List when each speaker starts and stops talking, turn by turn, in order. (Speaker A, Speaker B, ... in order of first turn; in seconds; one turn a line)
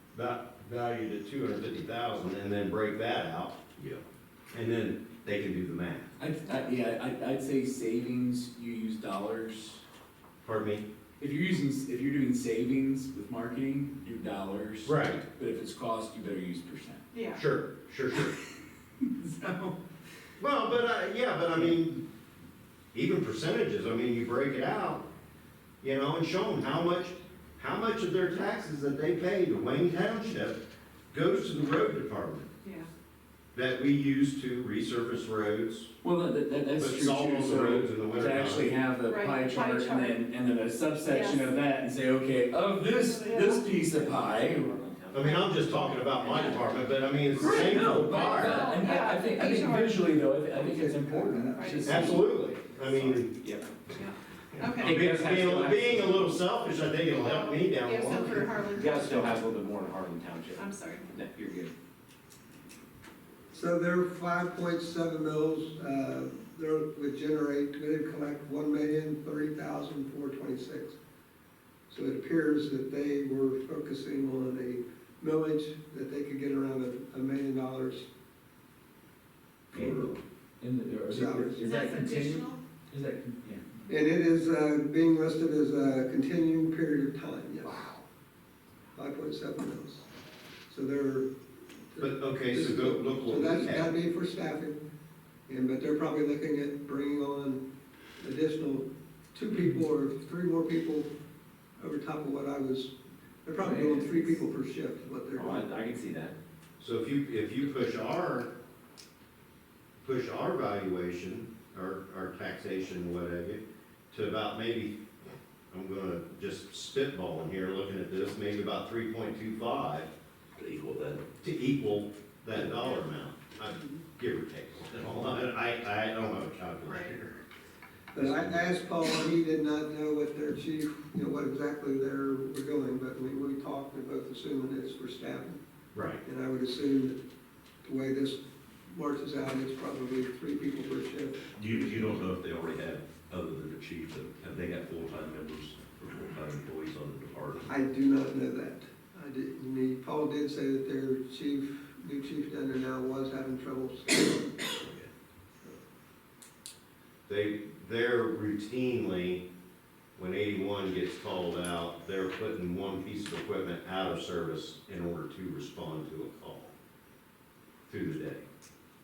Speaker A: 0.1-3.7
Speaker B: 3.8-4.0
Speaker A: 4.5-6.1
Speaker C: 6.2-9.8
Speaker A: 10.4-10.8
Speaker C: 11.2-17.0
Speaker A: 14.8-15.2
Speaker D: 17.1-17.4
Speaker A: 17.3-18.3
Speaker C: 19.2-19.7
Speaker A: 20.4-22.0
Speaker A: 22.9-25.1
Speaker A: 25.8-32.5
Speaker D: 32.6-32.9
Speaker A: 33.5-35.9
Speaker C: 36.0-44.7
Speaker A: 36.7-38.8
Speaker D: 39.1-40.2
Speaker D: 41.1-41.5
Speaker D: 42.9-43.6
Speaker E: 43.8-46.7
Speaker A: 45.1-48.7
Speaker E: 47.3-48.4
Speaker C: 47.3-52.9
Speaker D: 47.5-50.1
Speaker E: 48.9-49.7
Speaker F: 50.5-52.1
Speaker D: 51.5-52.2
Speaker A: 51.8-53.4
Speaker E: 52.9-53.7
Speaker D: 54.0-55.0
Speaker A: 54.6-58.6
Speaker C: 54.8-56.3
Speaker E: 55.1-55.9
Speaker D: 57.1-59.4
Speaker E: 58.7-61.7
Speaker D: 60.5-61.1
Speaker F: 63.5-71.0
Speaker F: 71.9-78.1
Speaker F: 79.7-80.1
Speaker C: 79.7-83.7
Speaker F: 81.1-81.6
Speaker D: 81.6-82.6
Speaker F: 83.9-88.0
Speaker F: 88.9-90.0
Speaker F: 90.7-91.3
Speaker F: 91.9-94.8
Speaker A: 92.0-94.0
Speaker F: 95.5-97.6
Speaker F: 98.2-101.1
Speaker F: 101.8-105.7
Speaker C: 103.6-104.3
Speaker E: 105.4-106.3
Speaker A: 106.8-108.5
Speaker A: 110.0-115.0
Speaker A: 115.7-120.1
Speaker B: 120.5-121.3
Speaker A: 121.4-127.4
Speaker D: 126.8-127.2
Speaker F: 128.1-135.6
Speaker A: 128.2-128.5
Speaker A: 135.9-136.2
Speaker F: 136.2-137.2
Speaker F: 137.8-142.2
Speaker B: 141.5-147.8
Speaker F: 147.7-154.5
Speaker B: 154.8-155.1
Speaker A: 157.3-159.4
Speaker A: 160.2-166.7
Speaker A: 167.9-168.4